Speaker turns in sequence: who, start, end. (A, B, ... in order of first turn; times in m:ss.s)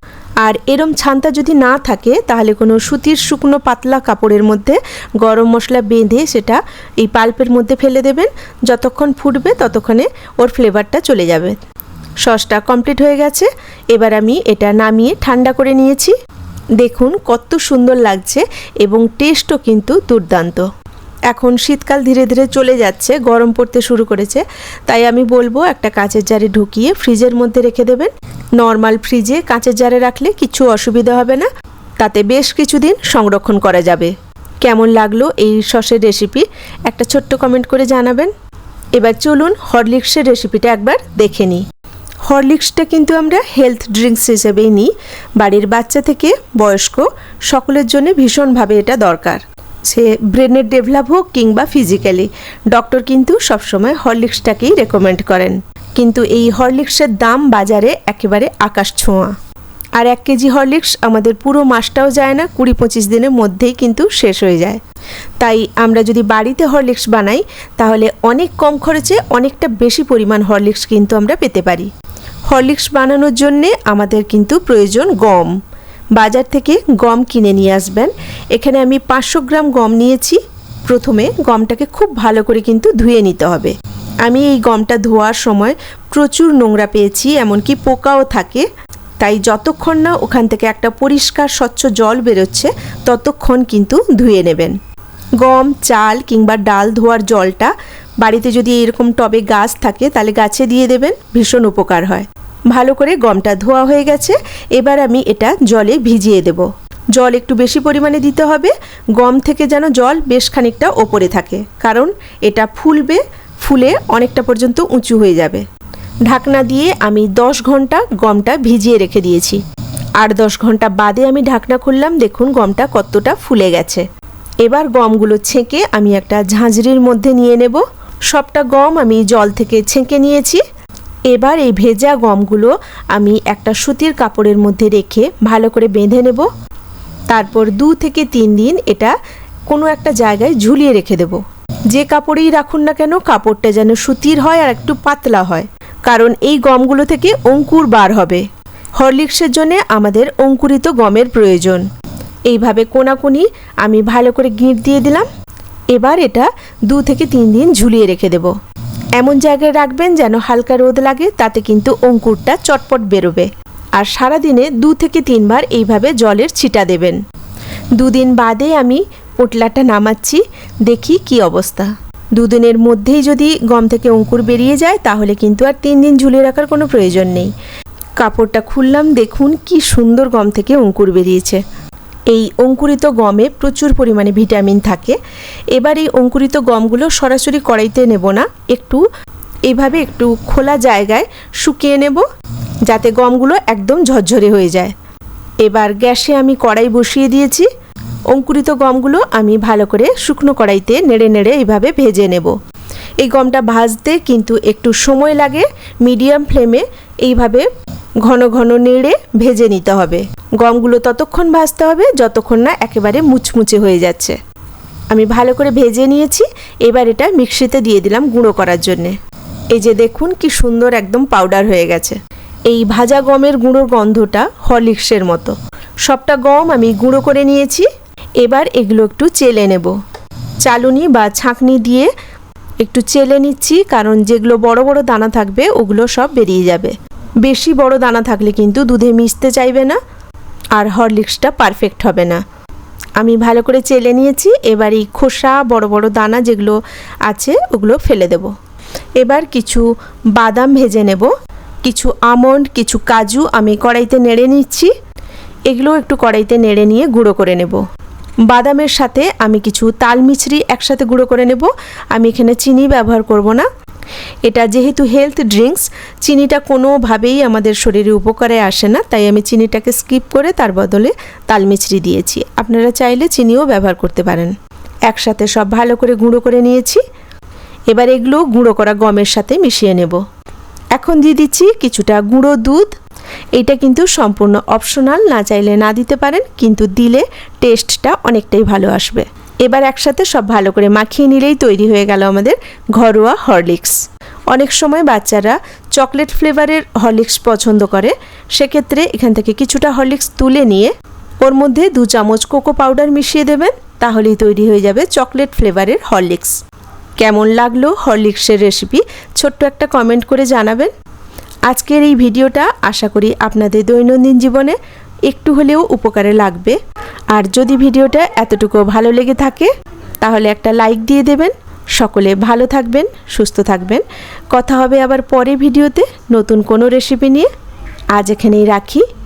0:00.4-0:11.6 A
0:12.2-0:16.1 A
0:16.8-0:20.7 A
0:21.3-0:31.5 A
0:32.0-0:38.3 A
0:39.0-0:41.6 A
0:42.2-0:59.3 A
1:00.0-1:04.8 A
1:05.4-1:11.9 A
1:12.5-1:15.6 A
1:16.2-1:28.7 A
1:29.2-1:34.8 A
1:35.4-1:55.6 A
1:56.2-1:59.6 A
2:00.2-2:04.0 A
2:04.6-2:10.6 A
2:11.3-2:16.5 A
2:17.3-2:19.2 A
2:19.7-2:28.4 A
2:29.0-2:31.8 A
2:32.5-2:35.3 A
2:35.9-2:38.5 A
2:39.2-2:47.2 A
2:48.0-2:57.5 A
2:58.2-3:01.6 A
3:02.3-3:05.2 A
3:05.7-3:09.0 A
3:09.7-3:12.2 A
3:12.9-3:14.9 A
3:15.6-3:17.7 A
3:18.3-3:22.5 A
3:23.2-3:27.7 A
3:28.2-3:34.4 A
3:35.1-3:39.2 A
3:39.7-3:45.5 A
3:46.0-3:47.9 A
3:48.4-3:49.9 A
3:50.6-3:52.1 A
3:52.8-4:00.0 A
4:00.8-4:02.4 A
4:03.2-4:08.5 A
4:09.2-4:11.3 A
4:11.8-4:14.9 A
4:15.7-4:17.8 A
4:18.5-4:23.7 A
4:24.4-4:34.5 A
4:35.1-4:37.0 A
4:37.9-4:40.2 A
4:41.0-4:43.0 A
4:43.5-4:54.0 A
4:54.5-5:06.6 A
5:07.2-5:10.9 A
5:11.7-5:16.8 A
5:17.3-5:27.5 A
5:28.1-5:29.0 A